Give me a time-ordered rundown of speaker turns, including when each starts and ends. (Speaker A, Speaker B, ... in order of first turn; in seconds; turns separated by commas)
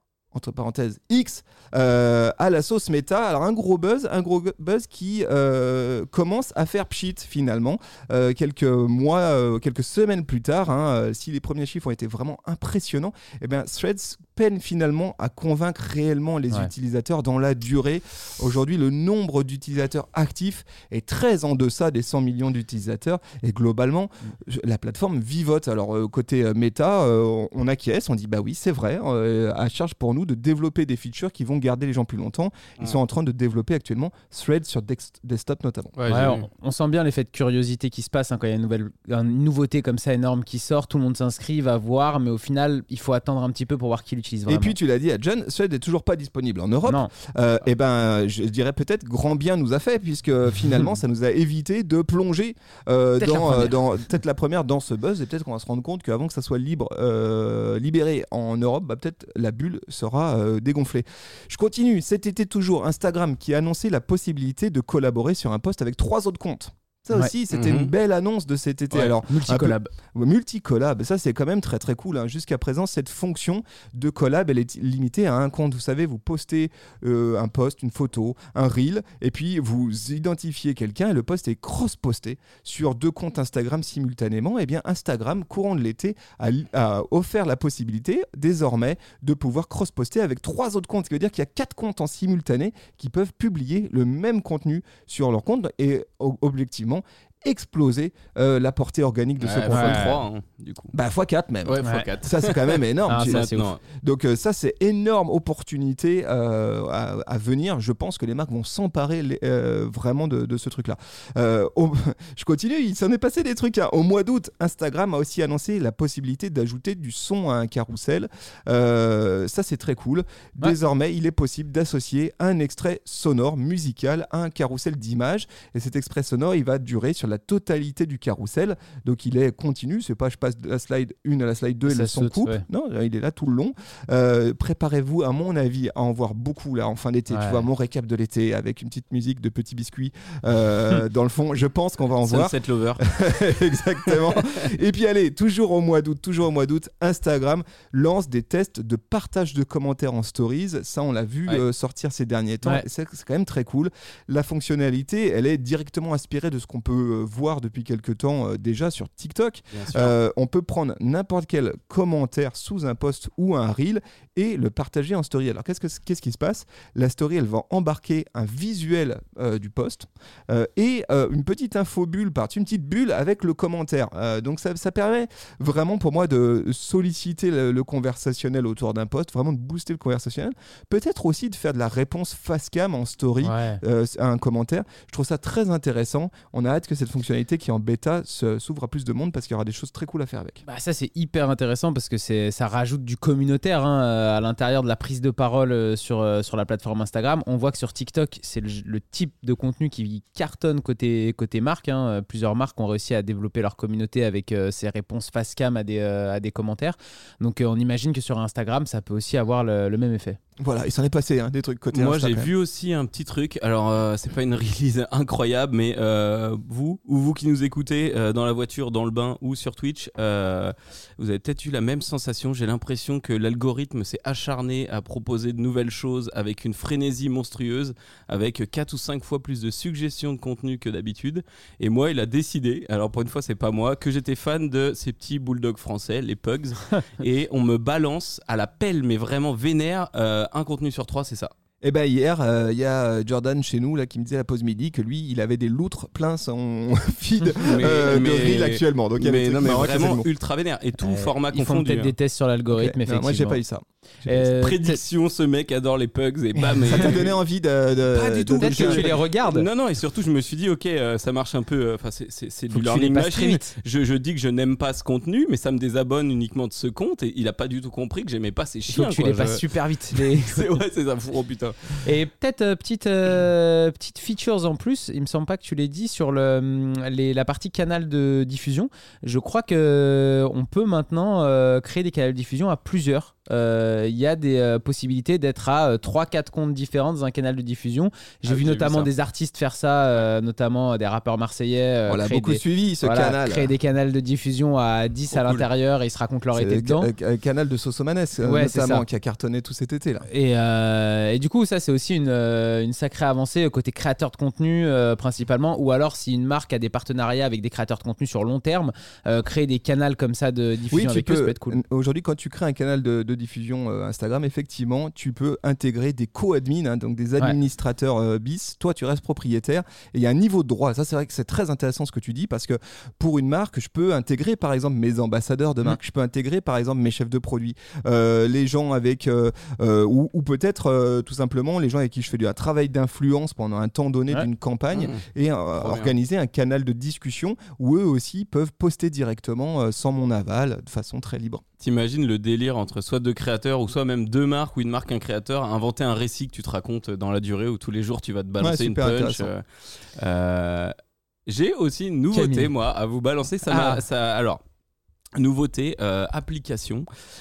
Speaker A: 0.3-36.0, Speaker B: 36.0-36.5, Speaker C: 36.1-44.8, Speaker A: 44.5-100.1, Speaker C: 46.8-47.1, Speaker C: 53.2-53.8, Speaker B: 67.5-67.9, Speaker C: 68.9-69.9, Speaker B: 99.4-100.9, Speaker C: 99.7-100.2, Speaker A: 100.9-103.5, Speaker B: 101.7-103.8, Speaker C: 101.8-102.1, Speaker C: 103.1-103.7, Speaker A: 104.0-190.6, Speaker C: 131.9-132.6, Speaker C: 137.3-137.7, Speaker B: 142.2-143.1, Speaker B: 144.0-144.4, Speaker B: 159.7-160.1, Speaker C: 183.4-183.8, Speaker C: 190.7-210.4, Speaker A: 210.6-212.5, Speaker B: 211.9-241.5, Speaker A: 241.8-250.3, Speaker B: 247.6-252.1, Speaker C: 251.0-253.6, Speaker A: 252.7-254.5, Speaker C: 254.2-255.0, Speaker B: 254.6-257.4, Speaker A: 256.8-259.1, Speaker B: 258.1-272.0, Speaker C: 258.6-259.6, Speaker C: 262.7-263.7, Speaker C: 268.9-270.8, Speaker C: 272.0-297.1, Speaker B: 288.4-289.1, Speaker A: 292.1-293.7, Speaker B: 295.3-295.7, Speaker A: 296.5-300.2, Speaker C: 298.4-299.1, Speaker C: 300.3-311.8, Speaker A: 310.9-341.6, Speaker B: 334.9-335.2, Speaker B: 335.8-336.1, Speaker B: 341.8-349.6, Speaker A: 348.6-349.5, Speaker B: 350.2-350.9, Speaker B: 351.5-354.6, Speaker C: 352.3-352.7, Speaker C: 353.7-354.0, Speaker B: 355.4-357.1